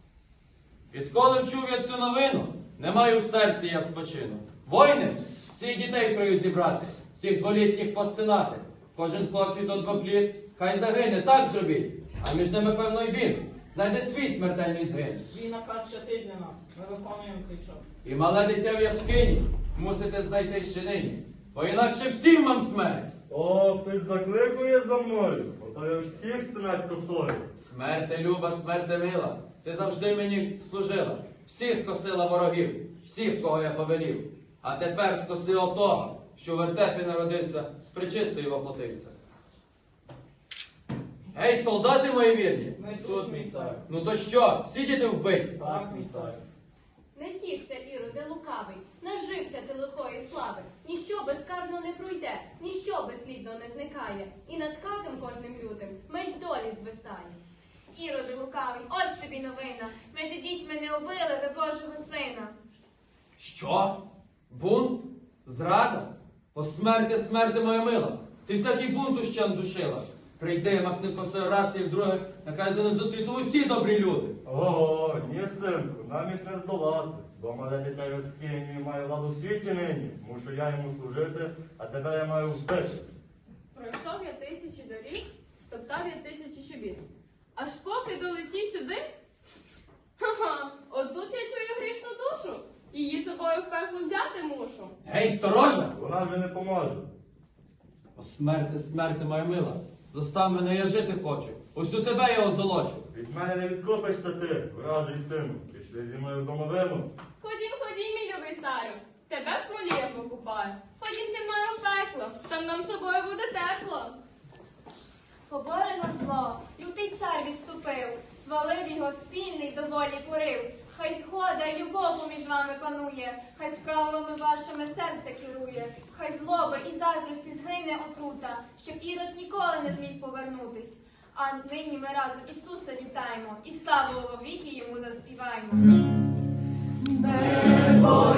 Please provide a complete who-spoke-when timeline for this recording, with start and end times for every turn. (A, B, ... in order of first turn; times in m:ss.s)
0:00.9-0:15.2 A
0:15.3-0:17.8 B
0:18.0-0:23.1 A
0:23.3-0:27.5 C
0:27.6-0:39.1 A
0:41.3-0:46.3 A
0:42.8-0:43.8 B
0:45.6-0:46.4 B
0:47.1-0:57.4 D
0:57.9-1:02.5 E
1:03.4-1:03.9 A
1:04.5-1:14.4 A
1:14.4-1:23.0 C
1:23.7-1:27.0 F
1:27.6-1:29.0 F
1:30.2-1:34.9 F
1:35.0-1:35.9 A
1:35.9-1:37.1 C
1:38.2-1:43.0 A
1:43.1-1:47.1 C
1:47.4-1:54.2 F
1:55.5-2:15.8 E